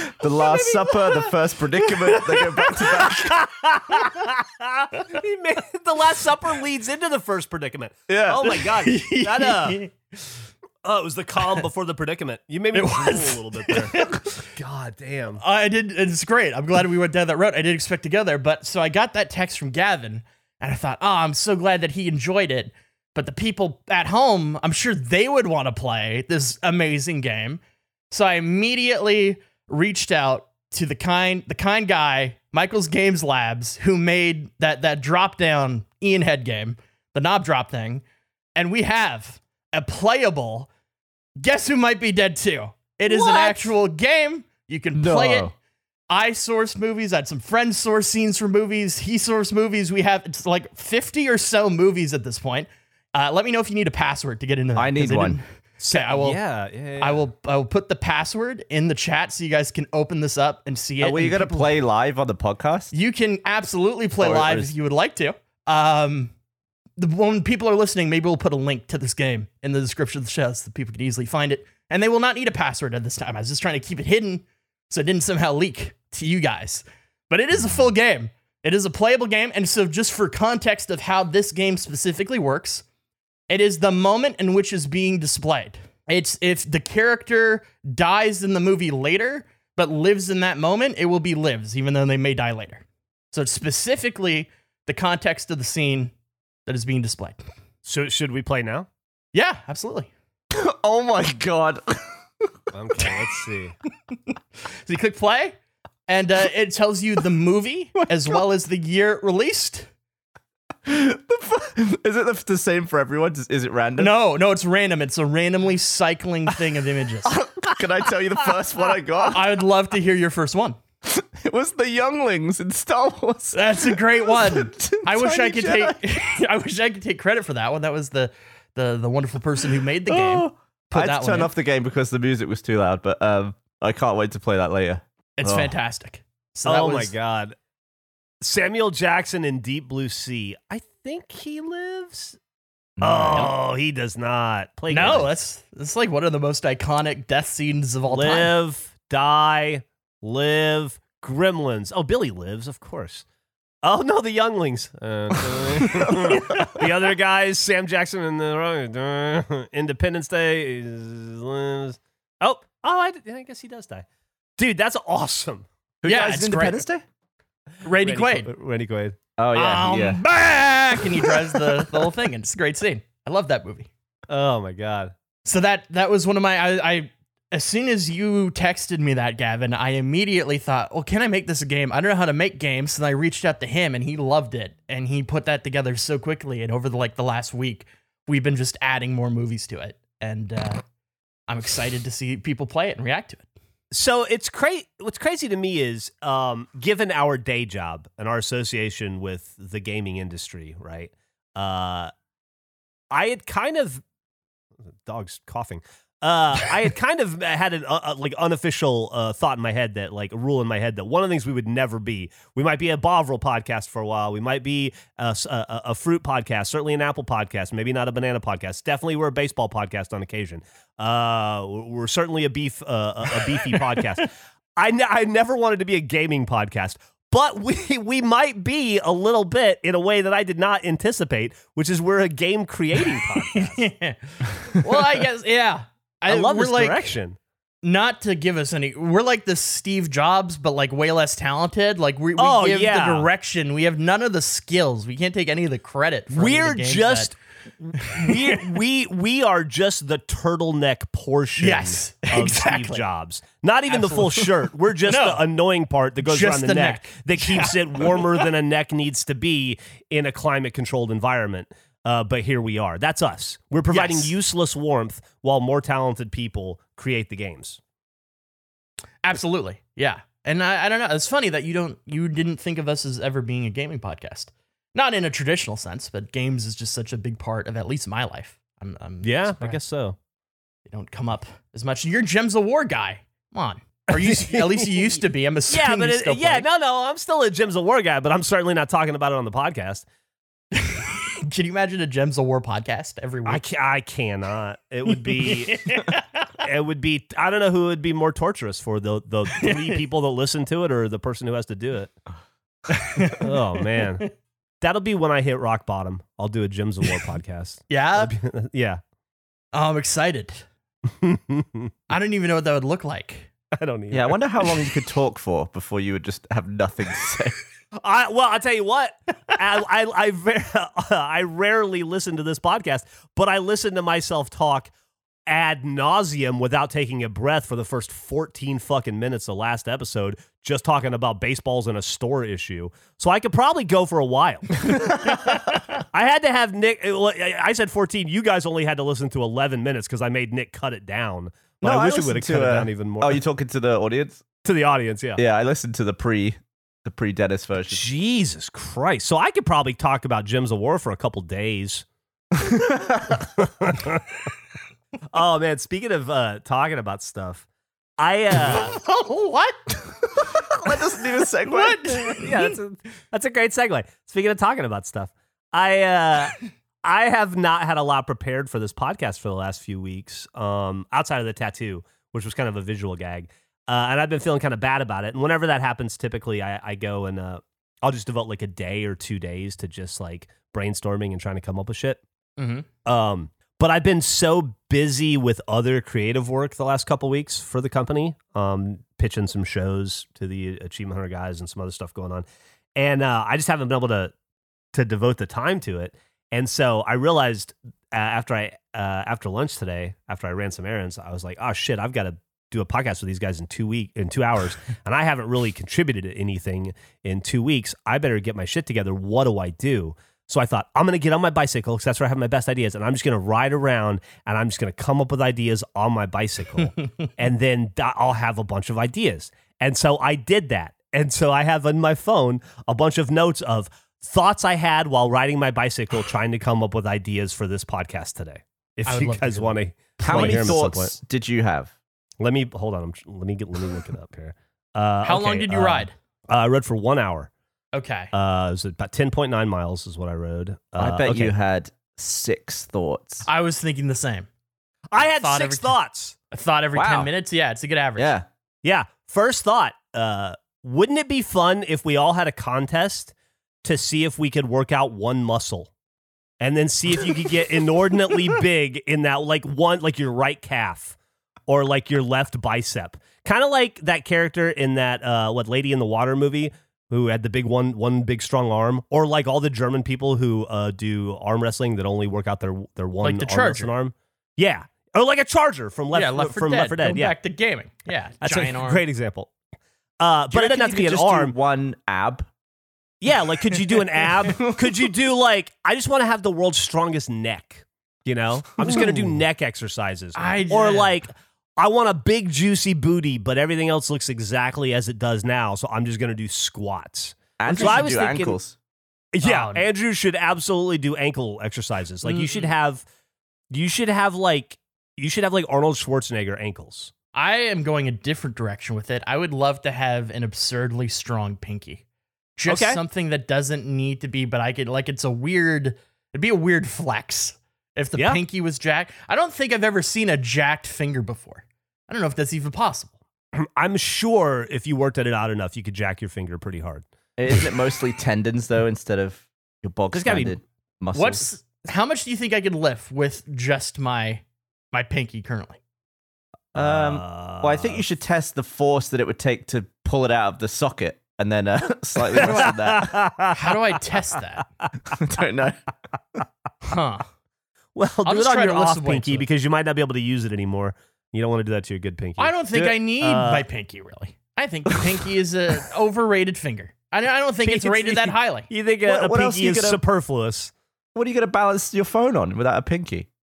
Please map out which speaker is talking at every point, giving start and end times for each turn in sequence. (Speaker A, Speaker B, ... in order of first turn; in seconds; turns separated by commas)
Speaker A: 0.2-3.4, Speaker B: 0.5-0.9, Speaker C: 2.1-2.8, Speaker B: 3.0-9.8, Speaker C: 3.9-4.2, Speaker A: 8.1-8.5, Speaker C: 8.8-10.3, Speaker B: 10.8-15.4, Speaker C: 12.7-14.4, Speaker C: 15.4-27.6, Speaker C: 28.1-38.0, Speaker C: 38.5-40.7, Speaker C: 41.4-45.5, Speaker A: 43.1-43.5, Speaker B: 43.3-43.6, Speaker A: 44.9-45.5, Speaker C: 46.1-56.4, Speaker A: 54.7-55.4, Speaker B: 55.8-57.2, Speaker C: 57.0-61.7, Speaker A: 61.0-62.9, Speaker C: 62.9-66.3, Speaker A: 64.2-64.7, Speaker C: 67.0-82.8, Speaker C: 83.5-96.1, Speaker C: 96.7-97.5, Speaker B: 97.8-98.9, Speaker C: 99.3-100.1, Speaker A: 100.5-102.5, Speaker B: 102.7-103.7, Speaker C: 104.8-105.5, Speaker C: 106.1-109.9, Speaker A: 108.0-108.4, Speaker A: 110.8-114.1, Speaker C: 114.0-117.3, Speaker A: 117.2-119.5, Speaker C: 119.3-120.8, Speaker A: 121.0-126.0, Speaker C: 123.5-131.5, Speaker A: 130.1-135.7, Speaker C: 135.4-137.1, Speaker B: 136.7-137.5, Speaker B: 138.4-142.4, Speaker A: 143.0-143.5, Speaker B: 143.0-145.3, Speaker C: 144.9-148.5, Speaker B: 148.1-153.2, Speaker B: 153.8-164.0, Speaker C: 156.3-156.7, Speaker B: 164.6-165.7, Speaker A: 166.0-167.0, Speaker C: 166.1-166.8, Speaker C: 167.8-168.5, Speaker B: 168.0-169.2, Speaker A: 169.4-170.2, Speaker C: 169.5-173.9, Speaker B: 174.3-175.1, Speaker C: 175.4-190.8, Speaker C: 191.5-193.4, Speaker B: 193.9-202.1, Speaker B: 203.1-204.0, Speaker B: 205.0-233.8, Speaker C: 223.4-224.2, Speaker C: 233.5-237.2, Speaker B: 236.3-237.4, Speaker C: 237.8-247.3, Speaker B: 242.4-243.3, Speaker B: 246.3-267.8, Speaker C: 248.0-248.6, Speaker C: 251.6-253.0, Speaker C: 253.9-254.5, Speaker C: 255.1-255.4, Speaker C: 256.2-258.4, Speaker C: 263.9-264.3, Speaker C: 269.2-279.8, Speaker B: 279.2-280.1, Speaker C: 280.9-286.6, Speaker B: 284.1-290.0, Speaker C: 290.8-293.6, Speaker B: 293.4-296.0, Speaker C: 295.1-296.2, Speaker B: 296.6-302.2, Speaker C: 299.6-300.0, Speaker C: 302.9-303.5, Speaker B: 303.4-304.3, Speaker B: 304.8-309.0, Speaker C: 307.9-308.3, Speaker C: 309.7-310.7, Speaker B: 311.2-311.9, Speaker C: 312.1-313.5, Speaker B: 313.8-314.8, Speaker A: 314.1-317.6, Speaker B: 318.0-324.9, Speaker B: 325.5-334.9, Speaker B: 336.1-343.4, Speaker A: 341.8-344.5, Speaker B: 344.6-345.4, Speaker A: 345.4-348.0, Speaker B: 347.9-352.0, Speaker A: 352.6-353.4, Speaker B: 353.6-354.2, Speaker B: 355.3-357.6, Speaker B: 358.2-358.9, Speaker C: 358.6-359.8, Speaker A: 360.8-362.4, Speaker C: 361.7-362.8, Speaker B: 362.3-382.2, Speaker C: 382.6-382.9, Speaker B: 383.1-392.4, Speaker B: 392.9-394.3, Speaker B: 394.9-431.1, Speaker C: 429.1-430.8, Speaker A: 430.2-431.9, Speaker B: 432.4-437.5, Speaker C: 435.2-436.1, Speaker C: 437.9-438.3, Speaker B: 438.3-441.5, Speaker A: 441.0-443.4, Speaker C: 443.4-444.5, Speaker B: 445.1-446.4, Speaker C: 445.2-445.9, Speaker C: 446.5-448.4, Speaker A: 446.9-447.3, Speaker A: 448.2-448.5, Speaker B: 448.8-455.9, Speaker B: 456.6-461.1, Speaker B: 461.7-477.3, Speaker C: 473.2-473.9, Speaker C: 476.1-479.0, Speaker B: 478.4-479.5, Speaker B: 480.2-481.5, Speaker A: 480.5-482.5, Speaker B: 483.2-498.6, Speaker C: 488.9-489.4, Speaker C: 490.4-491.3, Speaker A: 497.6-498.8, Speaker C: 497.7-498.0, Speaker B: 499.3-503.0, Speaker C: 499.4-499.8, Speaker C: 502.2-502.7, Speaker B: 503.7-507.1, Speaker C: 507.3-512.0, Speaker C: 512.6-523.1, Speaker B: 512.7-513.0, Speaker B: 523.5-527.0, Speaker A: 527.4-531.5, Speaker B: 530.1-530.5, Speaker C: 531.1-535.8, Speaker B: 536.7-538.0, Speaker A: 536.7-543.2, Speaker B: 542.4-543.7, Speaker C: 542.4-542.8, Speaker C: 543.5-544.6, Speaker A: 545.1-545.9, Speaker C: 546.9-547.3, Speaker B: 547.9-552.5, Speaker C: 548.2-549.4, Speaker C: 552.4-558.7, Speaker B: 553.2-553.6, Speaker B: 557.6-560.7, Speaker A: 559.0-560.0, Speaker A: 561.1-563.3